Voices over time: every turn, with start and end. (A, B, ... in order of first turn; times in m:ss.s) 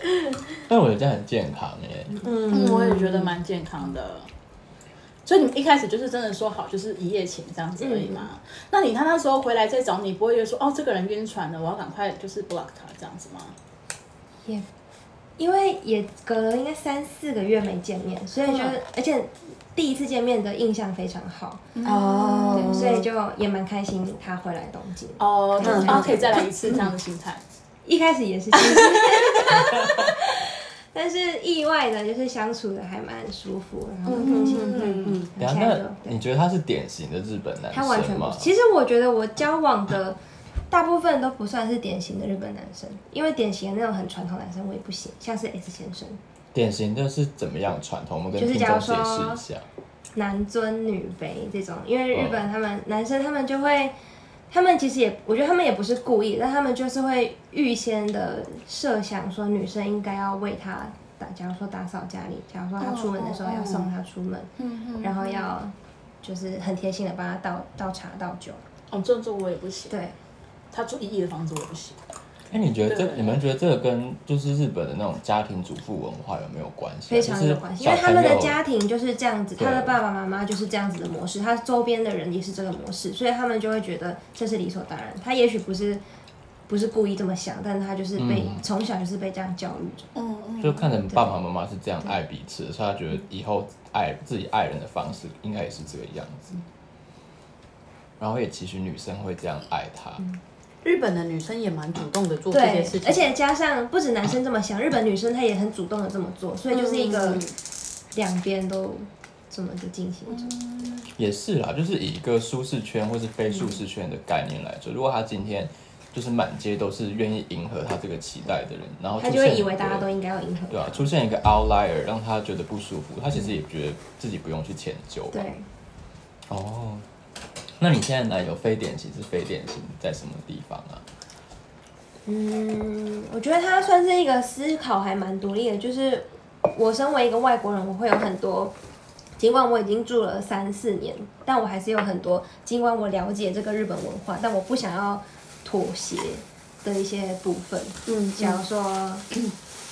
0:00.7-0:02.2 A
0:02.2-0:03.3 B
0:02.5-0:04.3 C
0:05.2-0:13.5 C
0:07.8-0:08.3 D
0:15.4-0:21.6 D
0:18.4-0:18.7 C
0:21.7-0:23.0 C
0:21.8-0:23.0 B
0:22.5-0:26.8 D
0:25.2-0:27.4 C
0:25.6-0:26.9 B
0:27.8-0:36.2 D
0:28.6-0:29.4 C
0:29.6-0:30.1 A
0:34.0-0:35.3 B
0:34.1-0:35.2 C
0:35.4-0:38.5 A
0:37.7-0:40.2 D
0:40.7-0:46.2 D
0:46.5-0:49.6 A
0:48.3-0:49.4 D
0:50.2-0:53.9 D
0:52.1-0:52.4 A
0:54.5-1:08.6 D
1:02.8-1:03.4 C
1:03.4-1:03.9 B
1:04.6-1:05.5 C
1:08.9-1:10.0 C
1:09.9-1:10.2 D
1:10.7-1:12.0 C
1:12.5-1:18.6 A
1:12.9-1:13.4 C
1:17.1-1:26.0 D
1:19.6-1:20.0 A
1:26.7-1:30.1 D
1:28.2-1:28.6 A
1:30.1-1:30.9 C
1:30.6-1:36.5 A
1:31.1-1:31.4 D
1:38.2-1:40.2 A
1:40.8-1:43.3 B
1:42.5-1:47.4 D
1:46.7-1:47.5 B
1:48.1-1:50.5 D
1:50.3-1:51.1 C
1:51.1-2:00.1 A
1:59.2-2:01.1 D
2:00.7-2:05.4 A
2:05.3-2:05.7 D
2:06.5-2:07.0 A
2:07.8-2:11.0 A
2:12.2-2:18.7 D
2:19.4-2:29.4 D
2:28.1-2:28.6 B